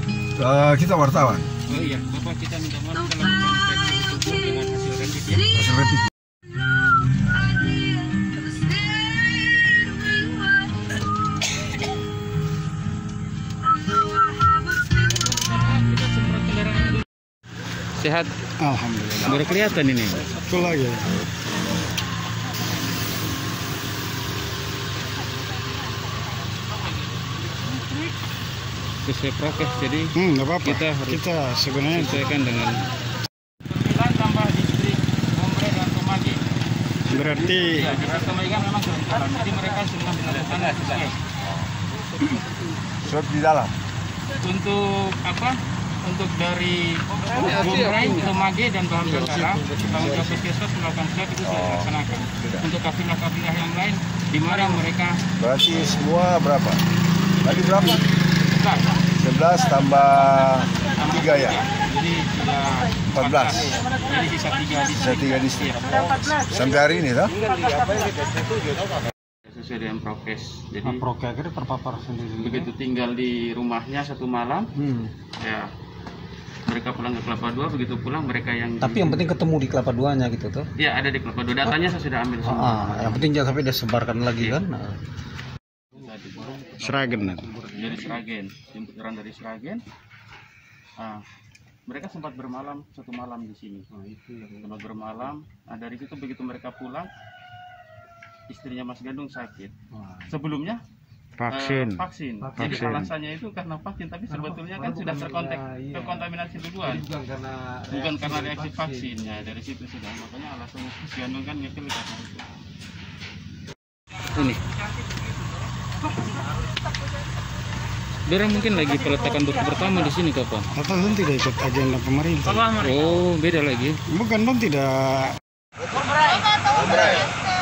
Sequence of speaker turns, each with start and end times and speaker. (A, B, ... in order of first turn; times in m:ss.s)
0:00.4-0:01.5 A
0:01.7-0:05.5 B
0:05.5-0:06.0 A
0:15.0-0:17.0 B
0:18.0-0:18.3 B
0:18.6-0:19.4 C
0:19.2-0:20.3 B
0:20.3-0:21.1 C
0:29.0-0:30.1 B
0:30.1-0:32.8 C
0:30.6-0:31.2 B
0:31.9-0:32.3 B
0:33.6-0:36.4 B
0:37.1-0:37.9 C
0:37.4-0:41.2 B
0:43.0-0:43.7 A
0:44.4-0:55.2 B
0:51.4-0:52.7 A
0:55.4-0:56.8 A
0:57.4-0:58.0 A
0:57.4-0:59.0 B
0:59.2-1:01.6 A
1:00.2-1:06.4 B
1:03.1-1:03.8 A
1:05.0-1:07.3 A
1:07.4-1:08.8 B
1:09.5-1:11.0 B
1:10.8-1:12.7 C
1:12.4-1:14.7 B
1:14.8-1:15.1 D
1:15.4-1:15.7 B
1:16.7-1:19.2 B
1:18.8-1:20.7 D
1:20.8-1:23.2 B
1:22.4-1:25.0 D
1:25.9-1:26.9 B
1:26.6-1:28.2 D
1:26.8-1:27.5 C
1:27.7-1:29.8 B
1:31.0-1:31.2 B
1:31.9-1:33.8 B
1:33.9-1:34.6 D
1:34.6-1:37.1 B
1:38.5-1:39.7 B
1:40.0-1:40.3 D
1:40.3-1:40.8 B
1:41.4-1:42.0 C
1:41.5-1:47.0 B
1:42.4-1:43.1 D
1:42.6-1:43.1 C
1:44.3-1:46.3 D
1:46.8-1:49.2 D
1:47.9-1:52.4 B
1:54.3-1:54.6 B
1:58.3-2:00.7 B
2:00.8-2:02.9 C
2:02.5-2:04.0 B
2:04.1-2:05.4 C
2:06.6-2:07.3 A